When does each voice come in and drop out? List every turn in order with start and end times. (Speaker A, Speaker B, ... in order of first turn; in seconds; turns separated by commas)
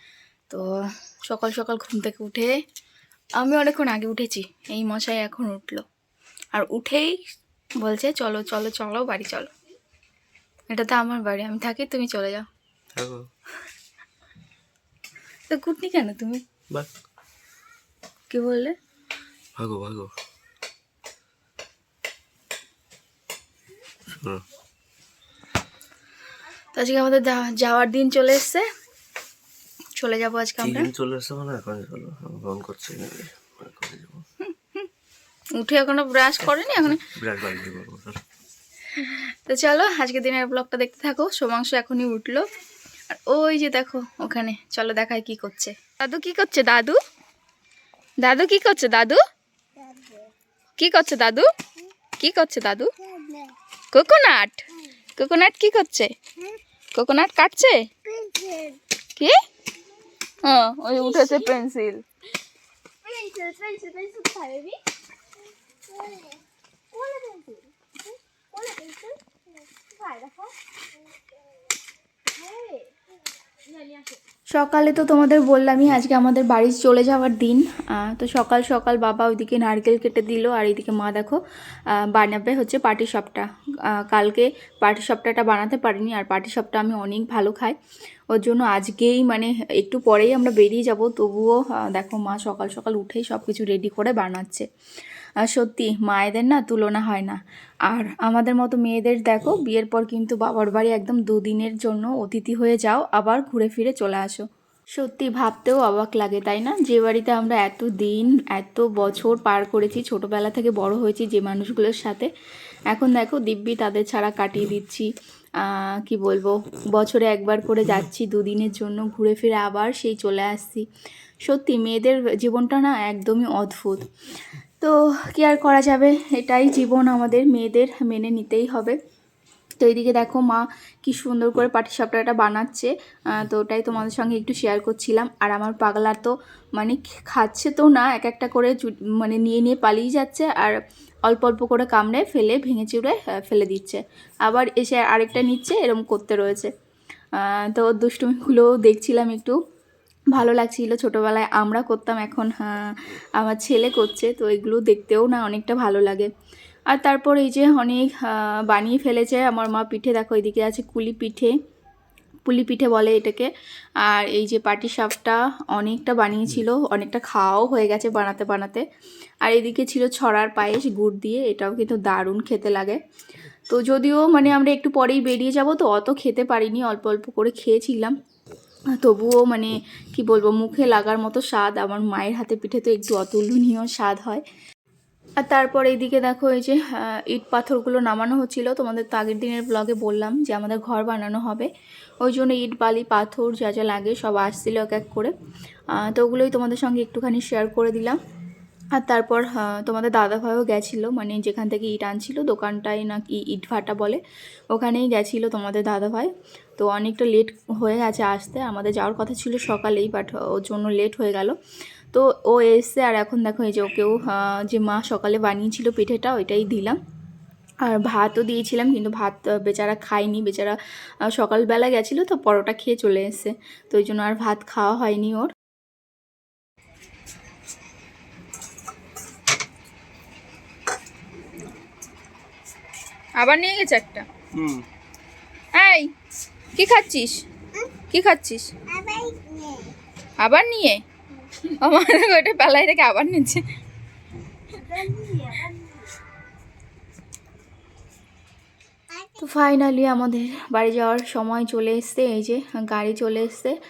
Speaker A: 0.5-2.6, Speaker A: 3.4-5.8, Speaker A: 6.5-7.2, Speaker A: 7.8-9.5, Speaker A: 10.7-12.5, Speaker B: 12.9-13.3, Speaker A: 15.5-16.4, Speaker A: 18.3-18.8, Speaker B: 19.6-20.1, Speaker B: 24.1-24.4, Speaker A: 26.7-28.7, Speaker A: 30.0-30.9, Speaker B: 30.6-34.2, Speaker A: 34.4-34.9, Speaker A: 35.6-37.1, Speaker B: 36.9-38.2, Speaker A: 38.9-42.5, Speaker A: 43.1-47.0, Speaker A: 48.2-49.2, Speaker C: 49.8-50.2, Speaker A: 50.8-51.5, Speaker A: 52.2-53.0, Speaker C: 53.2-53.5, Speaker A: 53.9-56.1, Speaker A: 56.9-57.9, Speaker C: 58.1-58.8, Speaker A: 60.4-62.0, Speaker C: 63.0-64.8, Speaker C: 65.9-66.4, Speaker C: 66.9-70.5, Speaker C: 72.3-72.9, Speaker C: 73.7-74.2, Speaker A: 74.5-81.4, Speaker A: 81.9-87.8, Speaker A: 88.3-94.7, Speaker A: 95.4-104.5, Speaker A: 105.0-112.3, Speaker A: 112.9-115.1, Speaker A: 115.6-120.8, Speaker A: 121.5-124.1, Speaker A: 124.8-129.0, Speaker A: 129.8-146.7, Speaker A: 147.3-149.6, Speaker A: 150.3-156.3, Speaker A: 156.9-161.6, Speaker A: 162.4-163.5, Speaker A: 164.0-168.8, Speaker A: 169.4-173.0, Speaker A: 173.7-178.2, Speaker A: 179.0-184.4, Speaker A: 185.4-191.7, Speaker A: 192.2-195.3, Speaker A: 195.9-198.2, Speaker A: 198.9-204.2, Speaker A: 204.7-211.6, Speaker A: 212.1-217.0, Speaker A: 217.8-225.5, Speaker A: 233.4-234.3, Speaker A: 235.8-236.1, Speaker A: 236.7-237.4, Speaker A: 238.1-238.7, Speaker C: 238.9-239.9, Speaker A: 240.4-241.0, Speaker A: 241.7-243.6, Speaker C: 244.9-245.7, Speaker A: 249.4-253.8